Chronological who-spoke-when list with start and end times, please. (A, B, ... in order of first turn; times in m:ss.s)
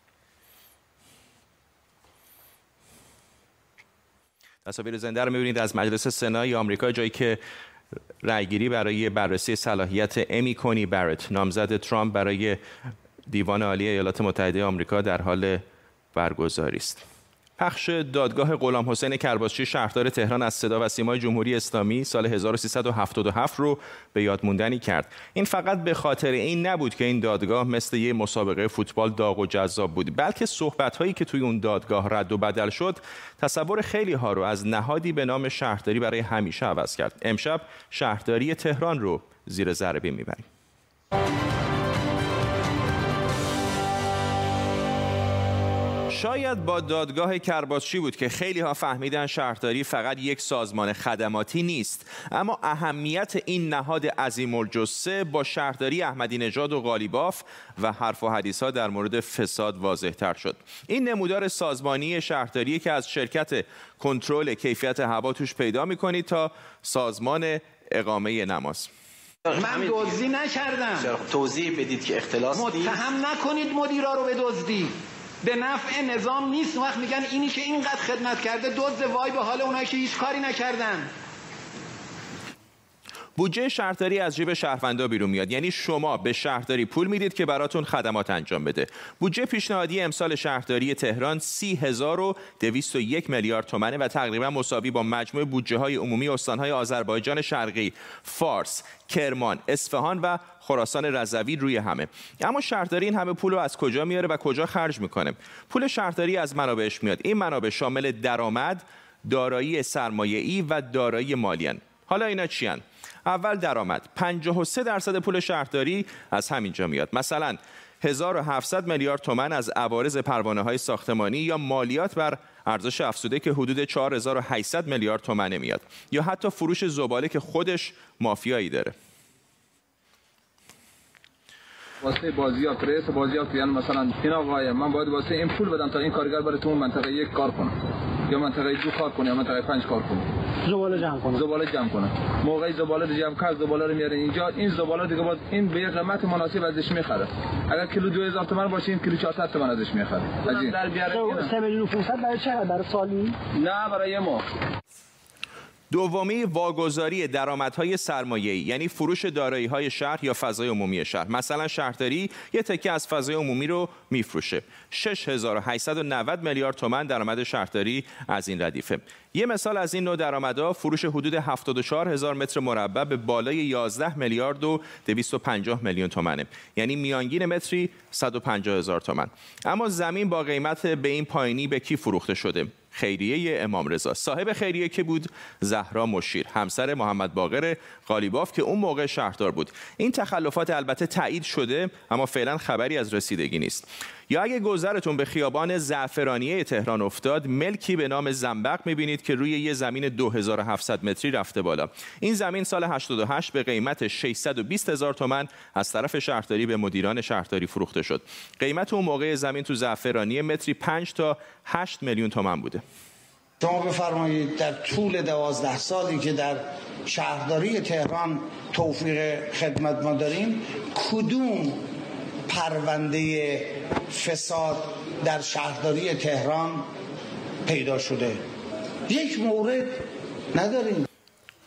0:04.6-0:07.4 A
0:08.2-0:12.6 A
0:13.3-0:15.6 A
0:16.2-0:17.0 A
0:17.6-0:40.5 A
0:46.1-1:08.9 A
1:09.5-1:10.2 B
1:09.5-1:11.1 C
1:11.0-1:13.0 B
1:12.5-1:21.1 C
1:23.4-2:08.9 A
2:12.0-2:20.3 D
2:20.7-2:21.4 E
2:21.3-2:31.5 D
2:30.5-2:33.4 E
2:33.6-2:34.4 D
2:35.9-3:32.8 A
3:33.6-3:41.9 F
3:42.5-3:46.9 F
3:47.7-3:48.4 F
3:49.1-3:51.1 F